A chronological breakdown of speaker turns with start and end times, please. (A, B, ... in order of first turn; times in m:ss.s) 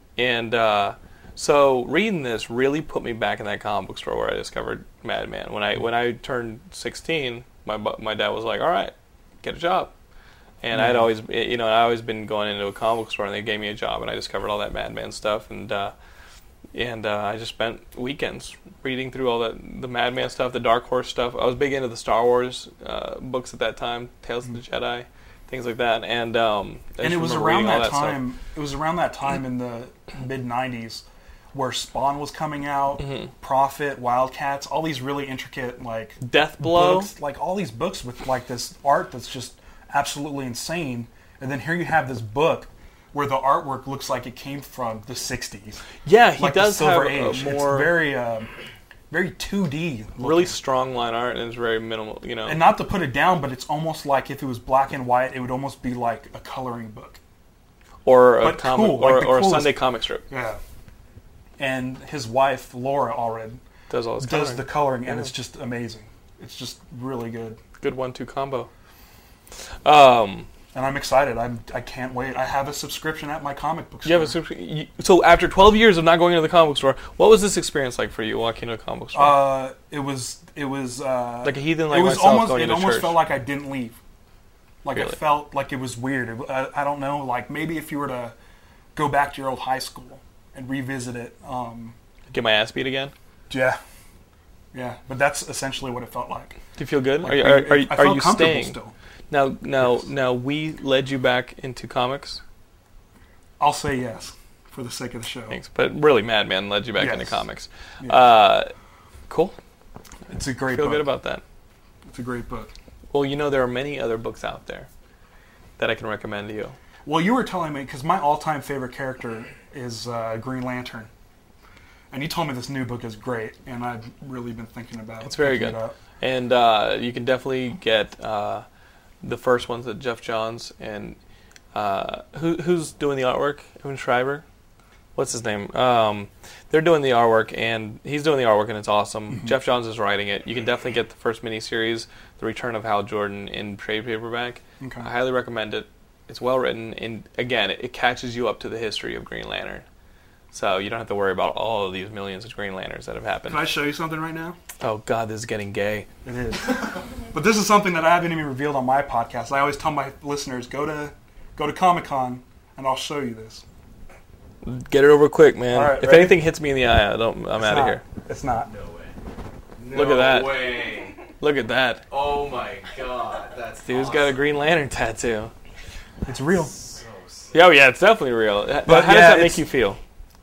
0:00.2-0:09.9 A
0:10.6-0:15.9 A
0:10.7-0:11.1 B
0:16.7-0:28.2 A
0:27.0-0:45.8 B
0:33.0-0:33.3 A
0:36.2-0:37.1 A
0:46.0-0:48.0 A
0:46.4-0:48.5 B
0:49.1-0:50.6 B
0:50.2-0:52.6 A
0:52.4-0:57.2 B
0:58.0-1:00.2 A
0:58.4-1:00.6 B
1:01.6-1:03.6 B
1:03.9-1:05.3 A
1:04.2-1:07.6 B
1:07.8-1:08.7 A
1:09.8-1:10.5 A
1:10.7-1:14.4 B
1:14.0-1:19.4 A
1:19.1-1:24.0 B
1:21.4-1:23.2 A
1:24.8-1:28.3 B
1:28.9-1:32.0 B
1:32.3-1:33.1 A
1:33.5-1:33.8 B
1:34.7-1:36.6 B
1:36.8-1:38.8 A
1:37.2-1:38.9 B
1:39.3-1:42.4 A
1:43.6-1:45.6 B
1:45.5-1:48.7 A
1:47.0-1:47.4 B
1:48.0-1:48.3 B
1:49.3-1:49.6 A
1:50.3-1:51.1 B
1:50.7-1:51.4 A
1:52.1-1:52.7 B
1:53.1-1:54.9 A
1:55.8-1:56.8 A
1:57.0-2:01.1 B
2:02.1-2:06.0 B
2:05.2-2:08.6 A
2:09.2-2:11.2 A
2:11.7-2:14.4 A
2:15.2-2:29.8 A
2:24.8-2:25.1 B
2:30.5-2:33.7 A
2:33.5-2:34.6 B
2:34.8-2:36.1 A
2:36.2-2:43.6 B
2:44.6-2:48.0 A
2:45.7-2:46.4 B
2:47.6-2:48.7 B
2:48.6-2:49.2 C
2:49.8-2:51.2 C
2:49.9-2:50.7 A
2:51.4-2:52.0 A
2:52.1-2:54.4 C
2:53.8-2:55.5 A
2:56.2-2:56.7 B
2:56.7-2:57.5 C
2:57.5-3:00.0 A
2:58.8-2:59.7 B